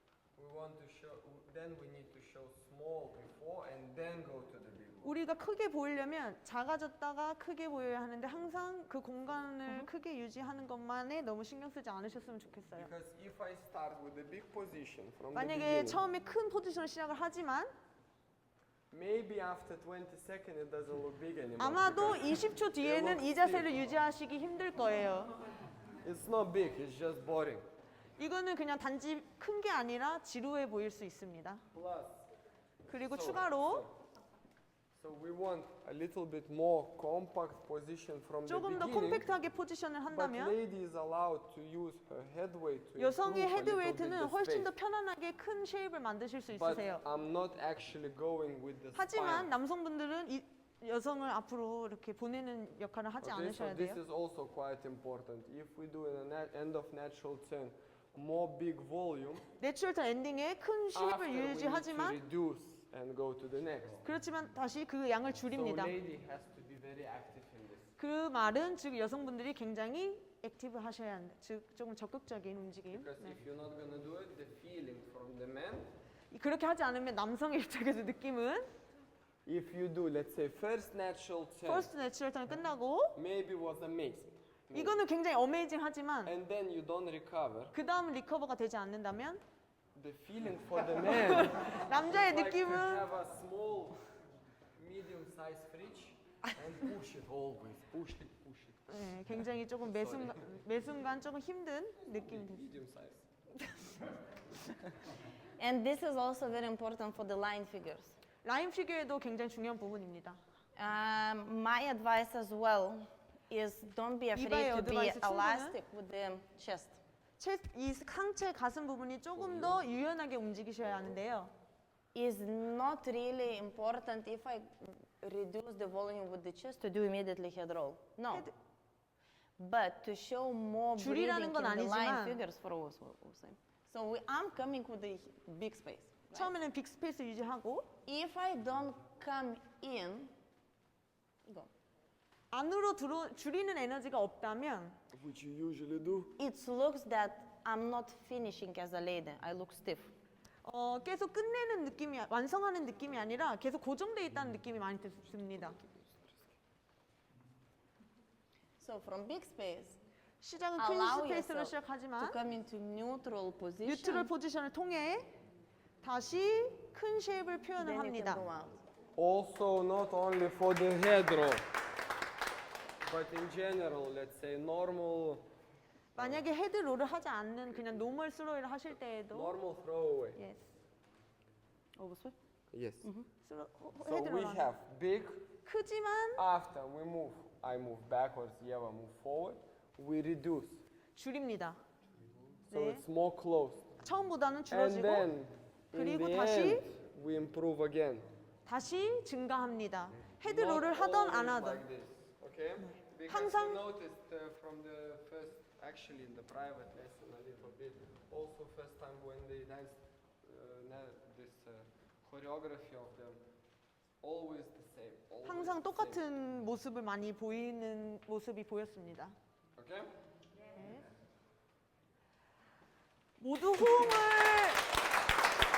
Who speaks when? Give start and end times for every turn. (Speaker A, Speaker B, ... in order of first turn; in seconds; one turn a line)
Speaker A: 0.3-5.2
Speaker B: 5.0-12.9
Speaker A: 12.7-16.0
Speaker B: 15.3-17.7
Speaker A: 18.9-23.9
Speaker B: 21.6-25.3
Speaker A: 26.0-27.6
Speaker B: 28.2-31.6
Speaker A: 31.7-32.2
Speaker B: 32.9-33.9
Speaker A: 32.9-33.9
Speaker A: 35.0-39.3
Speaker B: 38.5-40.5
Speaker A: 40.1-44.7
Speaker B: 43.0-47.0
Speaker A: 46.5-49.5
Speaker B: 48.9-54.0
Speaker A: 53.2-59.5
Speaker B: 59.6-62.2
Speaker A: 60.9-64.1
Speaker B: 64.0-65.9
Speaker A: 65.5-67.9
Speaker B: 68.0-73.3
Speaker A: 72.9-75.9
Speaker B: 76.3-78.7
Speaker A: 79.5-81.9
Speaker B: 81.6-83.1
Speaker A: 83.1-85.0
Speaker B: 84.7-86.3
Speaker A: 86.2-87.7
Speaker B: 87.7-89.4
Speaker A: 89.9-94.0
Speaker B: 90.9-93.0
Speaker A: 94.8-98.9
Speaker B: 98.9-102.7
Speaker A: 99.9-100.5
Speaker A: 102.1-103.2
Speaker C: 105.6-108.1
Speaker B: 108.4-110.4
Speaker C: 110.8-117.0
Speaker B: 114.3-115.8
Speaker B: 117.4-121.5
Speaker A: 119.4-119.8
Speaker C: 122.1-128.5
Speaker C: 129.6-136.5
Speaker B: 131.0-132.4
Speaker B: 136.3-137.8
Speaker C: 138.1-140.3
Speaker B: 142.5-145.0
Speaker A: 145.1-146.3
Speaker C: 146.4-150.1
Speaker B: 150.6-155.8
Speaker A: 155.8-156.3
Speaker C: 158.8-160.0
Speaker B: 160.4-162.4
Speaker C: 160.8-164.3
Speaker B: 163.8-165.3
Speaker B: 166.0-168.4
Speaker C: 167.8-168.8
Speaker A: 169.2-171.6
Speaker A: 173.0-175.4
Speaker B: 176.2-179.5
Speaker A: 176.2-176.4
Speaker A: 179.3-180.4
Speaker B: 180.3-180.6
Speaker B: 182.0-182.3
Speaker A: 182.7-183.1
Speaker B: 183.4-184.7
Speaker A: 184.0-185.5
Speaker B: 185.6-186.4
Speaker A: 186.4-190.8
Speaker B: 191.2-191.8
Speaker A: 192.7-193.9
Speaker B: 192.7-193.0
Speaker B: 194.0-195.2
Speaker A: 194.7-198.3
Speaker B: 195.9-196.8
Speaker B: 198.7-201.8
Speaker A: 200.4-213.4
Speaker B: 203.3-203.8
Speaker A: 214.2-216.2
Speaker B: 215.4-219.3
Speaker A: 219.8-220.1
Speaker B: 220.7-221.0
Speaker B: 223.4-224.8